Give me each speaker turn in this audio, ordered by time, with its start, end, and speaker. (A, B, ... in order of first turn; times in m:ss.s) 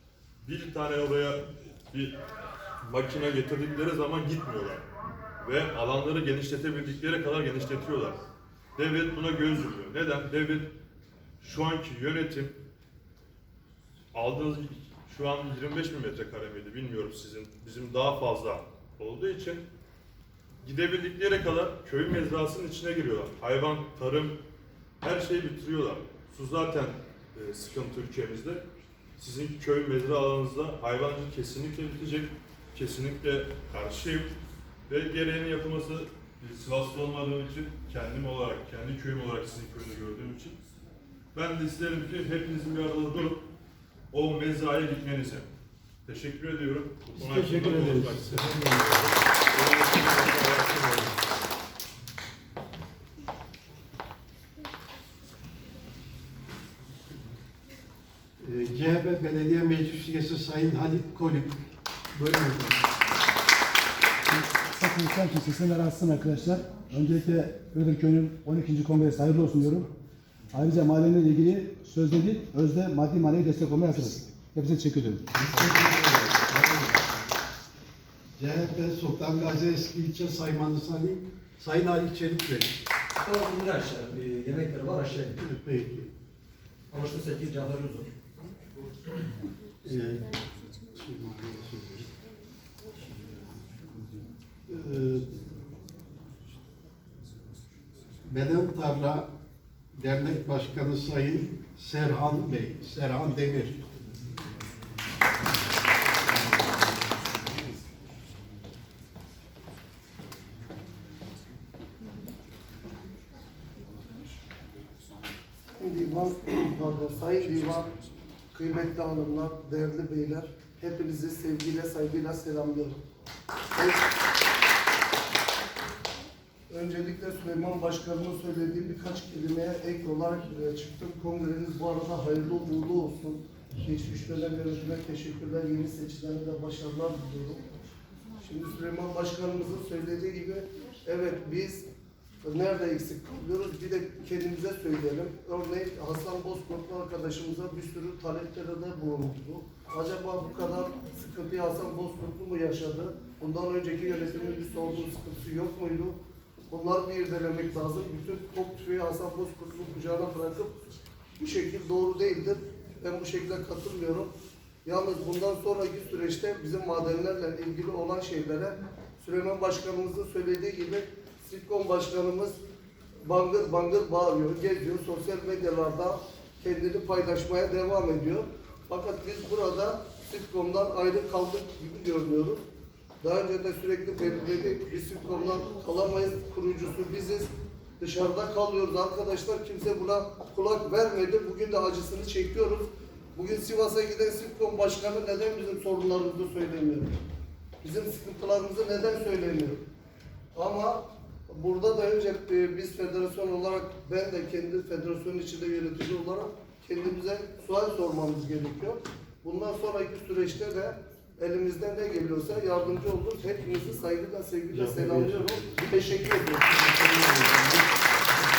0:00.4-0:02.2 A
0:02.8-0:04.8 A
0:05.4-0:08.2 A
0:08.8-0:10.7 A
0:11.4-0:12.6 A
0:14.1-0:19.6 A
0:20.6-0:24.4 A
0:25.0-0:28.6 A
0:29.2-0:34.3 A
0:34.9-0:40.6 A
0:41.3-0:43.5 A
0:44.1-0:45.5 A
0:46.1-0:51.2 A
0:47.2-0:49.1 B
0:58.4-1:02.9 B
1:04.3-1:09.9 C
1:10.5-1:15.3 C
1:15.4-1:16.8 D
1:15.4-1:16.0 B
1:16.5-1:16.8 B
1:18.4-1:22.8 B
1:23.2-1:25.4 D
1:25.4-1:26.1 B
1:26.9-1:28.1 D
1:29.8-1:30.4 B
1:30.9-1:32.1 B
1:33.1-1:35.7 B
1:38.2-1:39.3 B
1:39.9-1:43.8 B
1:55.8-1:57.9 E
1:58.5-2:03.0 E
2:03.7-2:04.0 E
2:06.7-2:17.7 E
2:18.4-2:21.8 E
2:22.4-2:36.2 E
2:36.7-2:40.8 E
2:41.4-2:44.3 E
2:44.8-2:52.6 E
2:53.2-3:02.6 E
3:03.2-3:07.5 E
3:08.0-3:17.2 E
3:17.8-3:19.8 E
3:20.6-3:37.8 E
3:34.7-3:36.2 B